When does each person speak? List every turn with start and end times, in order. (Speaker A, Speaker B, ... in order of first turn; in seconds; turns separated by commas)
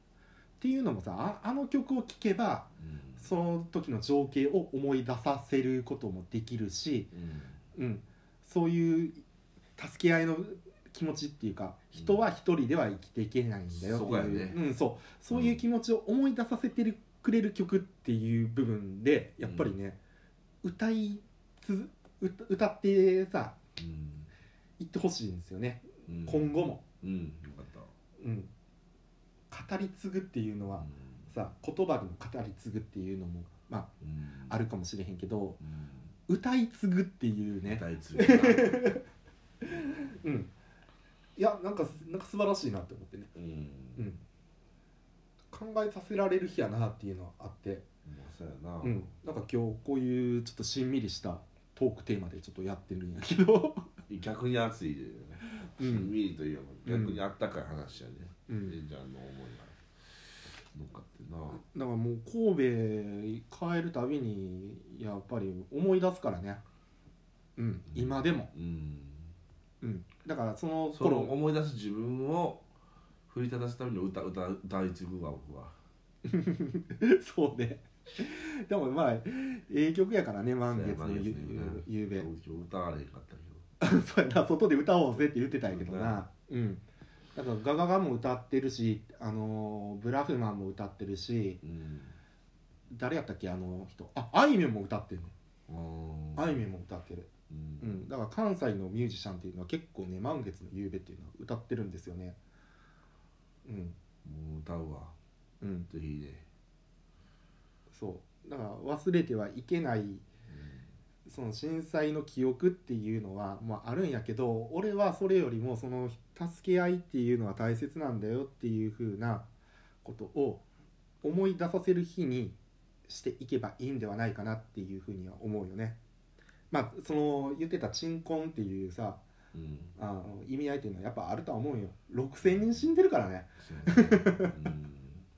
Speaker A: 0.6-7.1, Speaker B: 2.8-3.3, Speaker B: 7.1-7.6, Speaker A: 7.7-9.2, Speaker A: 9.8-20.0, Speaker B: 13.7-14.6, Speaker B: 15.3-15.6, Speaker B: 19.4-19.7, Speaker A: 20.6-23.6, Speaker B: 23.8-24.3, Speaker A: 24.8-26.8, Speaker B: 26.1-27.9, Speaker A: 28.2-28.5, Speaker A: 29.5-33.9, Speaker B: 30.8-31.3, Speaker B: 34.0-34.5, Speaker A: 34.5-35.6, Speaker B: 35.6-36.1, Speaker A: 36.3-39.0, Speaker B: 37.6-38.9, Speaker A: 39.6-40.5, Speaker B: 39.6-40.1, Speaker A: 41.4-43.3, Speaker B: 43.3-44.1, Speaker A: 44.0-44.2, Speaker A: 45.5-47.9, Speaker B: 48.0-49.1, Speaker A: 48.8-53.9, Speaker B: 54.1-61.6, Speaker A: 55.4-56.1, Speaker A: 56.9-57.2, Speaker A: 58.5-58.8, Speaker A: 61.5-66.6, Speaker A: 67.6-68.5, Speaker B: 67.9-69.3, Speaker A: 69.8-71.3, Speaker B: 70.9-72.7, Speaker B: 73.3-75.8, Speaker A: 76.2-82.3, Speaker B: 80.7-83.6, Speaker A: 83.8-86.8, Speaker B: 85.7-86.2, Speaker A: 87.3-91.6, Speaker B: 91.6-92.2, Speaker A: 92.9-95.3, Speaker B: 95.7-96.6, Speaker A: 96.3-97.3, Speaker B: 97.5-98.0, Speaker A: 97.8-102.4, Speaker A: 103.6-104.0, Speaker B: 104.2-105.1, Speaker A: 105.6-105.9, Speaker B: 105.9-106.5, Speaker A: 107.9-110.2, Speaker B: 110.5-110.9, Speaker A: 111.2-119.5, Speaker A: 120.0-120.6, Speaker A: 121.2-126.0, Speaker A: 126.7-129.2, Speaker B: 129.5-129.9, Speaker A: 129.9-134.5, Speaker B: 132.4-132.9, Speaker B: 133.6-135.2